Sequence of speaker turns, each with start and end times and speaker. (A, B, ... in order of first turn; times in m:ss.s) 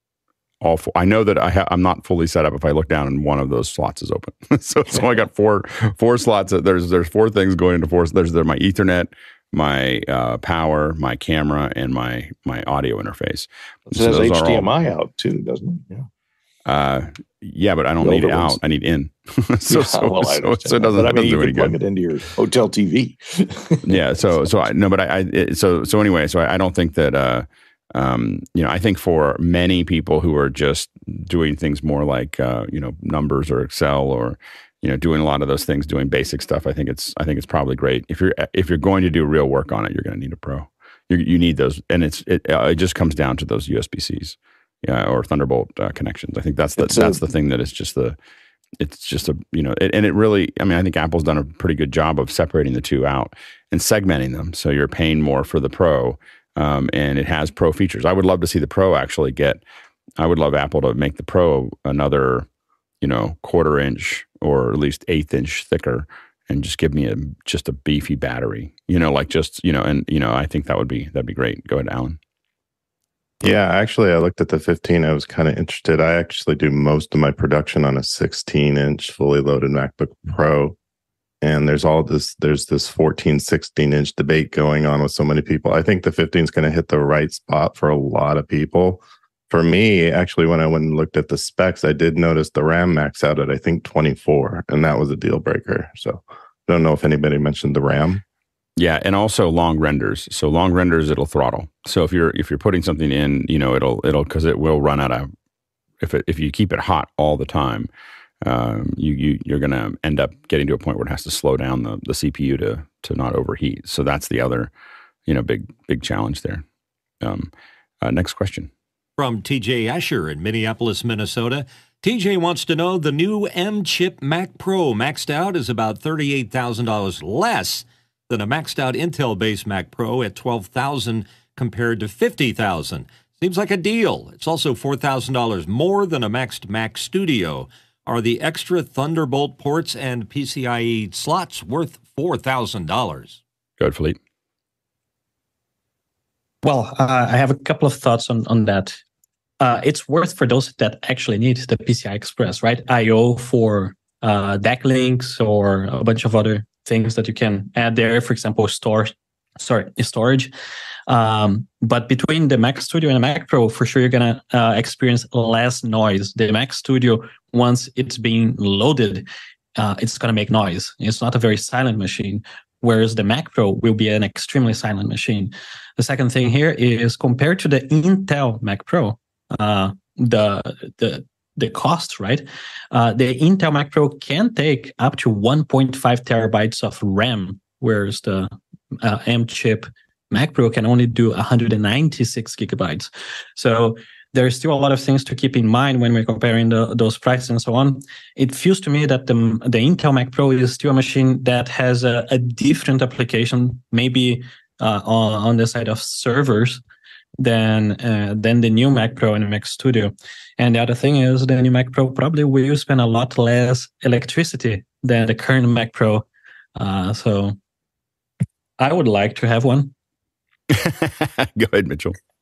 0:00.6-0:14.7 A
0:13.9-0:16.1 B
0:16.7-0:21.8 A
0:18.0-0:18.6 B
0:19.7-0:24.5 B
0:23.8-0:48.2 A
0:46.8-0:47.2 B
0:48.8-0:59.6 A
1:00.2-1:02.5 A
1:03.0-1:12.2 A
1:13.4-1:20.8 C
1:21.4-1:38.2 C
1:38.8-1:45.3 A
1:46.0-1:47.9 A
1:48.4-1:54.7 A
1:55.3-1:56.6 A
1:57.2-1:57.5 A
1:58.0-1:58.7 A
1:59.2-2:23.4 D
2:23.8-2:24.2 A
2:26.6-2:29.0 E
2:29.6-2:40.5 E
2:41.1-3:26.8 E
3:27.4-3:37.6 E
3:38.8-3:39.9 E
3:40.7-3:42.2 A